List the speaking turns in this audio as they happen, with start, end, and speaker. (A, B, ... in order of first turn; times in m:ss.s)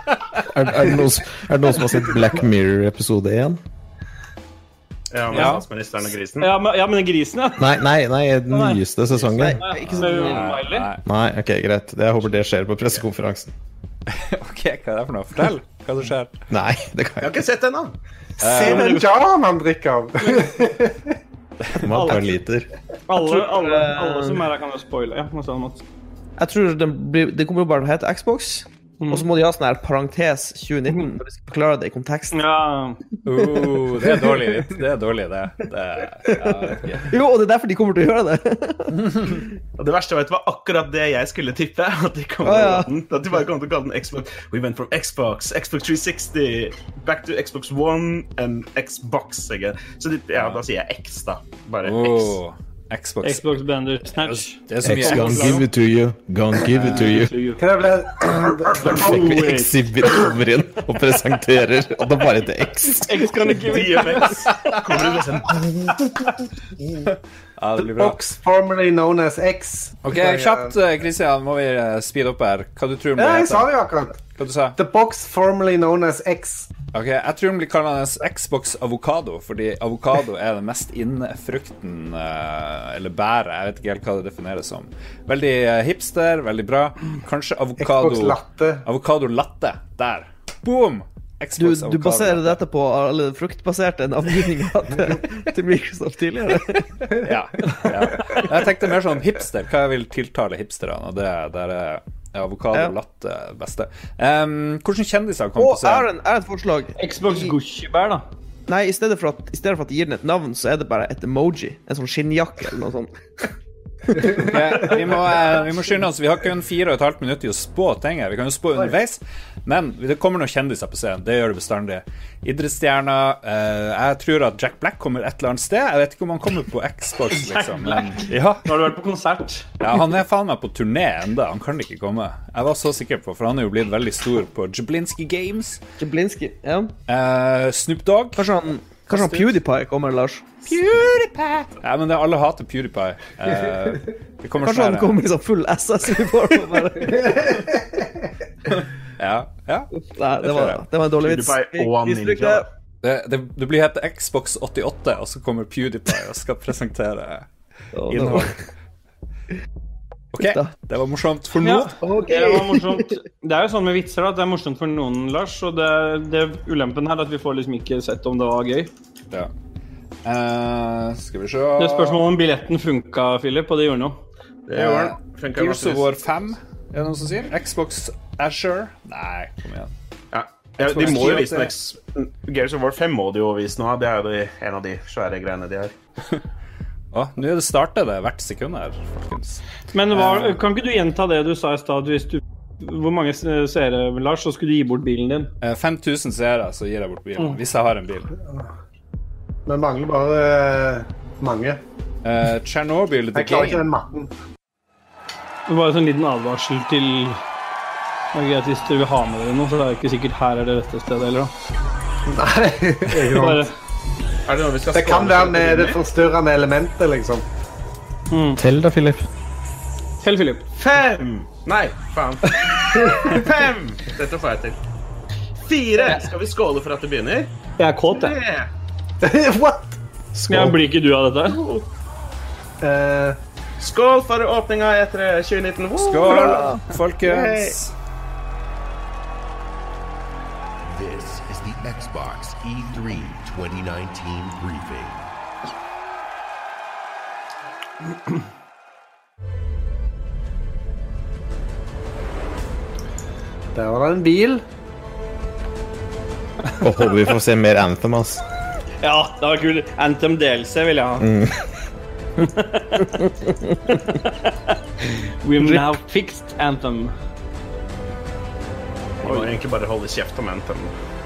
0:00.5-0:03.6 A
0:05.1-0:06.5 B
0:05.3-0:05.6 C
0:06.4-0:07.7 D
0:07.6-0:09.7 A
0:08.5-0:08.8 D
0:09.2-0:10.5 E
0:09.2-0:11.0 C
0:09.6-0:10.9 D
0:11.0-0:13.5 A
0:14.1-0:16.3 C
0:16.5-0:17.4 A
0:17.2-0:17.9 B
0:18.4-0:21.1 F
0:18.4-0:19.0 C
0:18.6-0:19.0 D
0:21.8-0:22.7 A
0:21.9-0:22.2 D
0:23.1-0:25.8 D
0:23.1-0:24.4 E
0:26.4-0:32.4 E
0:32.3-0:33.0 D
0:33.2-0:37.1 C
0:37.1-0:39.4 E
0:38.9-0:39.4 C
0:39.8-0:52.4 B
0:42.4-0:42.9 E
0:51.8-0:53.5 C
0:53.2-0:55.6 D
0:54.2-0:55.7 C
0:54.8-0:57.5 A
0:56.7-0:57.2 C
0:57.0-0:57.6 D
0:57.6-0:59.3 F
0:58.9-1:04.0 A
0:59.1-0:59.7 D
1:03.0-1:03.9 D
1:03.7-1:05.9 B
1:07.6-1:08.2 C
1:07.8-1:10.7 F
1:10.0-1:13.7 C
1:13.2-1:14.2 F
1:14.4-1:14.8 C
1:14.8-1:16.7 F
1:16.9-1:32.6 C
1:27.8-1:28.8 F
1:31.6-1:36.8 E
1:37.2-1:46.1 C
1:45.6-1:47.5 E
1:47.0-1:48.2 D
1:48.7-1:53.1 E
1:54.1-1:54.9 E
1:54.4-2:08.7 C
2:07.5-2:09.7 D
2:09.8-2:15.8 C
2:16.0-2:16.9 E
2:17.1-2:18.5 C
2:18.4-2:20.5 E
2:19.1-2:19.6 C
2:20.6-2:25.2 C
2:24.6-2:27.5 E
2:29.2-2:30.8 C
2:30.0-2:32.6 E
2:31.2-2:32.6 B
2:33.0-2:37.5 C
2:37.9-2:38.5 E
2:38.1-2:38.5 B
2:38.1-2:38.4 C
2:40.3-2:41.9 C
2:40.4-2:40.7 E
2:41.6-2:48.9 D
2:42.0-2:43.1 E
2:50.2-2:52.2 C
2:51.8-2:54.2 D
2:54.7-2:56.1 B
2:54.8-2:59.9 C
3:00.3-3:05.9 B
3:00.8-3:01.7 C
3:07.1-3:09.6 C
3:09.9-3:15.5 D
3:10.1-3:10.6 C
3:15.6-3:18.3 C
3:18.4-3:18.7 F
3:19.7-3:21.8 F
3:22.2-3:23.8 C
3:23.3-3:24.3 F
3:25.7-3:27.4 D
3:28.3-3:31.5 D
3:32.3-3:33.6 F
3:33.2-3:33.7 D
3:34.4-3:36.0 B
3:34.9-3:37.4 F
3:38.3-3:38.6 D
3:38.6-3:39.2 A
3:40.2-3:40.7 D
3:40.8-3:44.8 B
3:43.0-3:43.3 F
3:45.6-3:47.5 B
3:47.8-3:48.3 D
3:48.1-3:48.7 B
3:49.2-3:50.0 F
3:50.3-3:50.7 A
3:50.5-3:51.6 D
3:51.5-3:51.8 B
3:52.8-3:53.4 F
3:53.8-3:57.7 B
3:56.0-3:57.9 C
3:56.3-3:56.8 E
4:00.8-4:05.3 G
4:13.7-4:14.6 F
4:16.8-4:18.4 A
4:19.0-4:21.2 D
4:21.2-4:21.5 A
4:22.6-4:23.0 D
4:25.4-4:27.1 D
4:25.6-4:25.8 E
4:29.2-4:30.9 B